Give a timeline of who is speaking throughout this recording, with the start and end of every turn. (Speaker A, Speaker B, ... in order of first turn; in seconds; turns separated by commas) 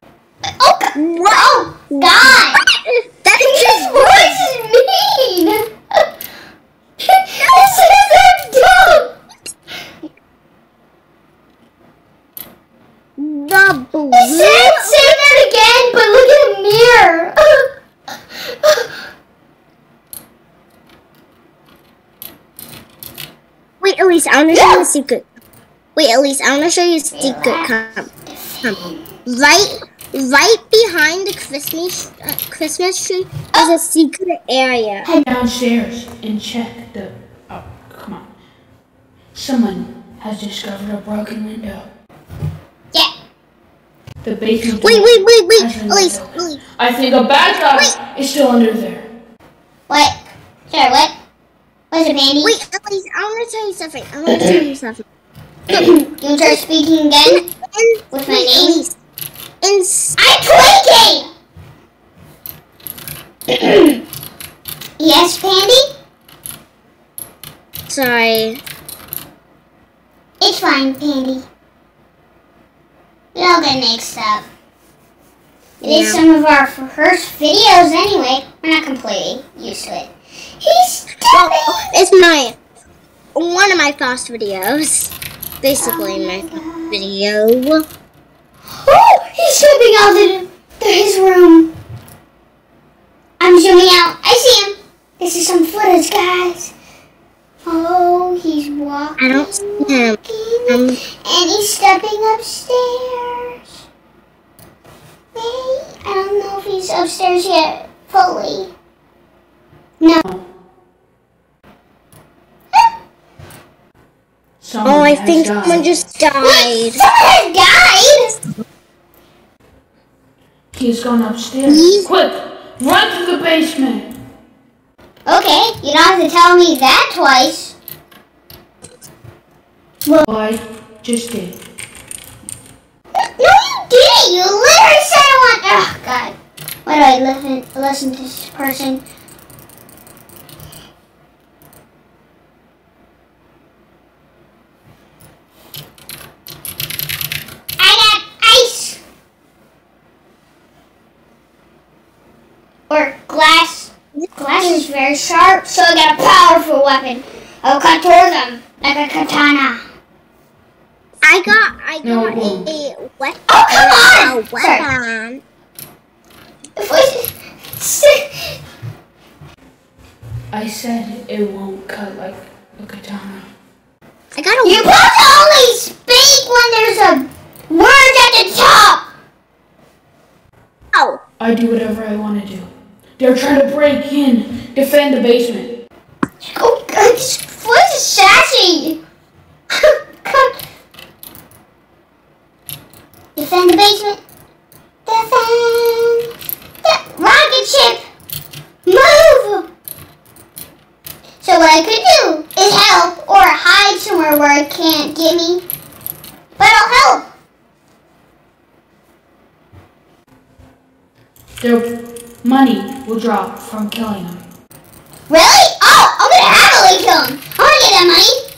Speaker A: 0.6-2.6, Speaker B: 0.9-4.5, Speaker A: 3.4-6.0, Speaker A: 7.1-9.1, Speaker B: 7.4-8.1, Speaker B: 13.2-15.3, Speaker A: 14.1-17.6, Speaker B: 23.8-25.2, Speaker A: 24.5-24.9, Speaker B: 25.9-28.1, Speaker A: 27.1-27.7, Speaker A: 28.2-29.0, Speaker B: 28.6-35.0, Speaker C: 35.2-38.3, Speaker C: 39.3-41.9, Speaker C: 44.2-49.1, Speaker B: 44.8-46.6, Speaker A: 49.9-51.1, Speaker A: 51.9-52.5, Speaker B: 52.4-55.0, Speaker A: 55.7-57.4, Speaker B: 57.3-58.9, Speaker A: 58.1-58.8, Speaker B: 59.6-60.2, Speaker A: 60.2-61.3, Speaker A: 63.5-64.0, Speaker A: 65.0-65.9, Speaker B: 67.9-68.6, Speaker A: 70.4-71.4, Speaker A: 73.3-74.5, Speaker B: 75.8-76.2, Speaker A: 75.8-81.9, Speaker B: 81.3-82.6, Speaker B: 83.3-87.8, Speaker A: 85.8-87.0, Speaker A: 88.8-91.7, Speaker A: 93.4-96.7, Speaker A: 97.7-103.6, Speaker B: 99.2-101.0, Speaker A: 105.3-108.7, Speaker C: 114.6-115.9, Speaker B: 114.8-117.0, Speaker A: 116.4-118.3, Speaker C: 120.7-124.1, Speaker B: 121.7-122.1, Speaker A: 125.2-127.7, Speaker C: 130.2-131.6, Speaker A: 133.2-136.3, Speaker A: 136.8-139.0, Speaker A: 147.8-149.0, Speaker A: 152.9-159.8, Speaker B: 161.2-165.4, Speaker C: 162.0-162.7, Speaker A: 163.5-164.8, Speaker A: 166.8-168.5, Speaker C: 170.5-173.5, Speaker B: 174.3-174.9, Speaker A: 174.6-179.0, Speaker B: 180.9-181.2, Speaker C: 181.4-185.7, Speaker A: 186.4-189.0, Speaker A: 189.7-190.6, Speaker A: 193.3-194.2, Speaker A: 195.1-196.2, Speaker A: 196.8-198.0, Speaker A: 198.8-199.7, Speaker A: 201.4-205.6, Speaker A: 206.6-207.3, Speaker C: 211.6-214.4, Speaker A: 215.3-218.4